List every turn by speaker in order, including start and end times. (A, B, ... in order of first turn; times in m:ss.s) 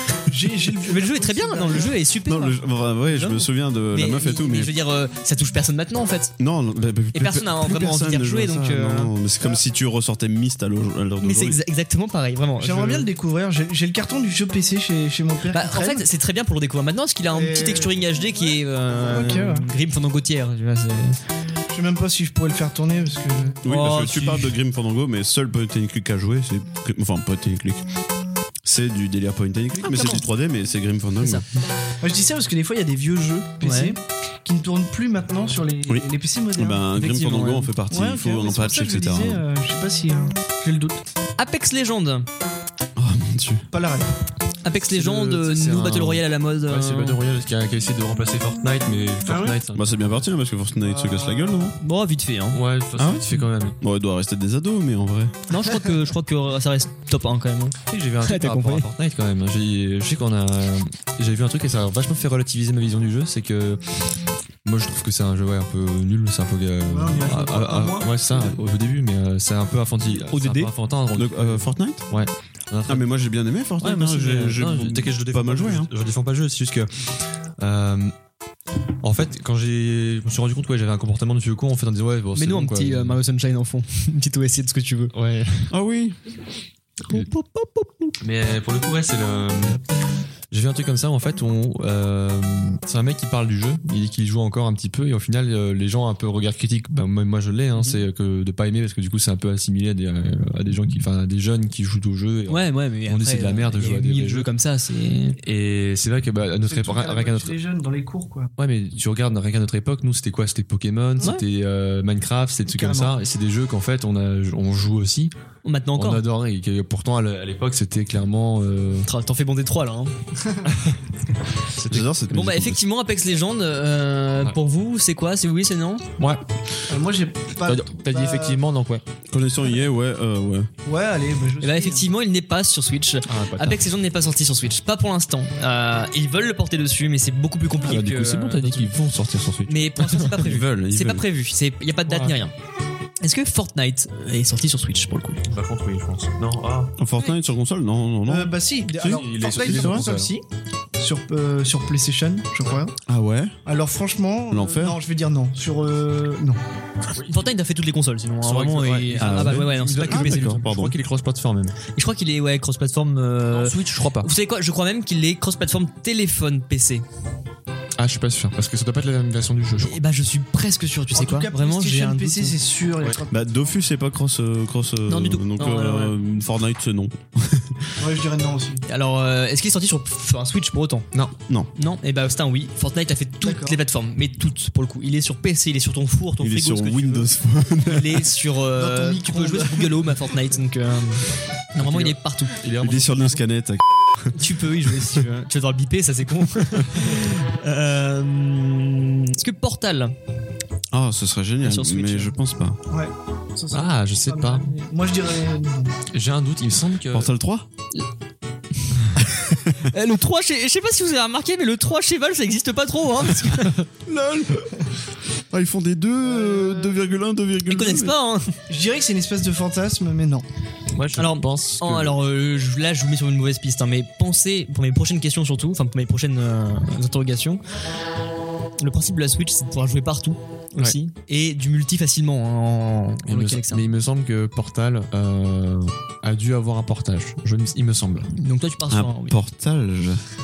0:00.3-0:02.0 A
0:00.8-0:06.3 B
0:02.2-0:04.7 C
0:06.4-0:11.6 C
0:07.1-0:09.1 B
0:11.2-0:13.1 B
0:12.6-0:16.0 A
0:15.5-0:21.2 B
0:17.3-0:19.7 A
0:21.7-0:23.6 A
0:23.6-0:27.8 C
0:23.6-0:24.5 B
0:28.6-0:31.4 C
0:29.8-0:30.2 A
0:31.2-0:31.4 B
0:32.0-0:36.9 A
0:33.6-0:34.0 B
0:35.9-0:39.4 C
0:36.9-0:37.7 B
0:37.9-0:41.0 A
0:41.4-0:42.3 B
0:43.0-0:43.7 C
0:43.7-0:44.1 A
0:44.6-0:47.2 B
0:44.9-0:50.0 D
0:49.2-0:49.6 A
0:49.7-0:51.8 C
0:50.8-0:51.7 A
0:51.8-0:52.6 B
0:52.5-0:53.8 D
0:53.0-0:55.3 C
0:55.5-0:58.9 B
0:57.9-1:03.8 D
1:04.6-1:13.1 D
1:06.8-1:08.6 A
1:10.3-1:10.7 B
1:11.1-1:12.0 C
1:12.9-1:15.9 C
1:13.8-1:18.1 D
1:19.0-1:23.2 D
1:22.3-1:25.1 B
1:25.1-1:25.7 D
1:25.7-1:26.2 C
1:27.1-1:28.1 B
1:28.2-1:29.8 D
1:30.5-1:44.5 D
1:37.8-1:38.0 B
1:42.5-1:45.4 B
1:45.4-1:47.6 D
1:46.7-1:48.5 A
1:48.6-1:55.3 D
1:52.7-1:53.2 A
1:55.6-1:56.2 B
1:56.0-1:59.1 D
1:59.0-2:00.1 B
2:00.4-2:00.7 A
2:01.7-2:02.1 D
2:01.9-2:02.8 C
2:02.3-2:06.0 B
2:06.9-2:08.6 A
2:07.6-2:09.0 D
2:09.3-2:10.7 C
2:10.8-2:12.1 A
2:11.6-2:18.9 B
2:13.3-2:13.9 D
2:17.8-2:20.4 D
2:19.7-2:22.5 B
2:20.4-2:21.2 C
2:22.1-2:22.4 D
2:23.2-2:25.4 B
2:25.5-2:26.9 D
2:27.0-2:30.1 C
2:28.3-2:30.4 A
2:29.0-2:30.3 D
2:31.0-2:32.9 A
2:33.0-2:33.5 C
2:33.6-2:36.6 A
2:34.5-2:35.0 C
2:37.2-2:40.6 B
2:38.4-2:41.8 D
2:39.2-2:41.0 C
2:41.9-2:47.0 B
2:43.5-2:44.3 D
2:48.0-2:50.0 D
2:49.8-2:52.6 B
2:51.1-2:53.5 A
2:53.3-2:58.0 C
2:55.1-2:56.2 B
2:58.0-2:58.8 A
2:58.9-3:01.1 B
3:01.7-3:07.3 B
3:03.4-3:03.8 A
3:06.4-3:08.3 C
3:07.8-3:12.6 B
3:08.7-3:10.1 A
3:11.8-3:13.4 D
3:12.8-3:14.3 C
3:14.3-3:20.1 B
3:20.9-3:22.8 C
3:21.6-3:22.3 B
3:22.9-3:26.0 A
3:23.7-3:24.7 D
3:26.1-3:27.3 D
3:27.1-3:27.7 C
3:29.2-3:29.8 C
3:29.8-3:33.8 B
3:34.0-3:34.8 C
3:35.5-3:38.1 C
3:36.2-3:37.0 A
3:37.7-3:38.5 B
3:38.7-3:40.4 A
3:40.9-3:42.2 D
3:41.2-3:47.6 B
3:48.8-3:53.9 B
3:53.2-3:58.3 D
3:58.3-3:59.4 B
3:58.9-4:00.2 C